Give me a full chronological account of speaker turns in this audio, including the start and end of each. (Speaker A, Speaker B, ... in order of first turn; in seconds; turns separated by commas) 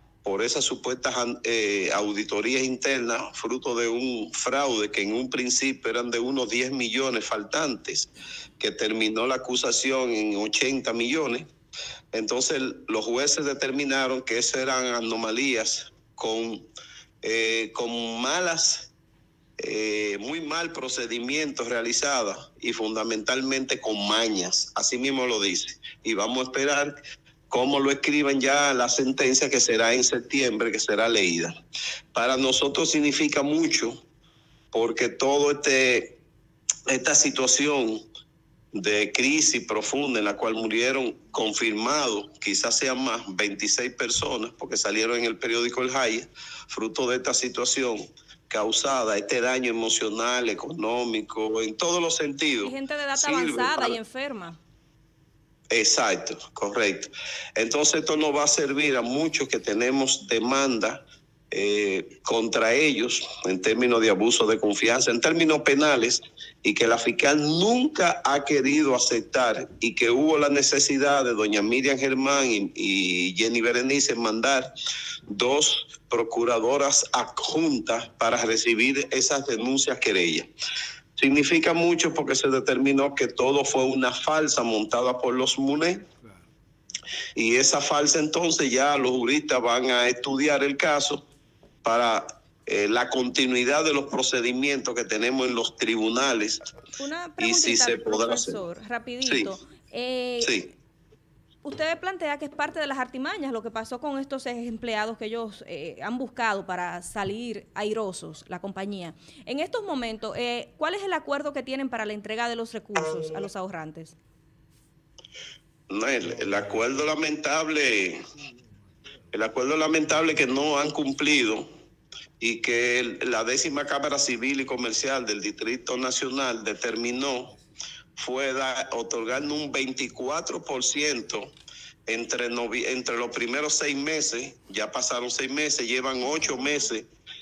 Speaker A: 0.2-11.5, Speaker A: 12.1-16.7, Speaker A: 17.2-18.9, Speaker A: 19.6-26.9, Speaker A: 27.5-31.5, Speaker A: 32.1-34.0, Speaker A: 34.7-36.2, Speaker A: 36.9-38.0, Speaker A: 38.7-54.0, Speaker B: 52.6-54.6, Speaker A: 55.7-74.7, Speaker A: 75.3-80.5, Speaker A: 81.2-86.1, Speaker A: 87.3-91.2, Speaker A: 91.8-96.6, Speaker B: 97.0-100.7, Speaker A: 97.4-98.6, Speaker A: 99.2-99.6, Speaker A: 100.4-100.7, Speaker B: 101.6-114.1, Speaker A: 115.9-118.2, Speaker A: 119.3-121.7, Speaker A: 122.4-127.6, Speaker A: 128.2-131.5, Speaker A: 132.1-137.1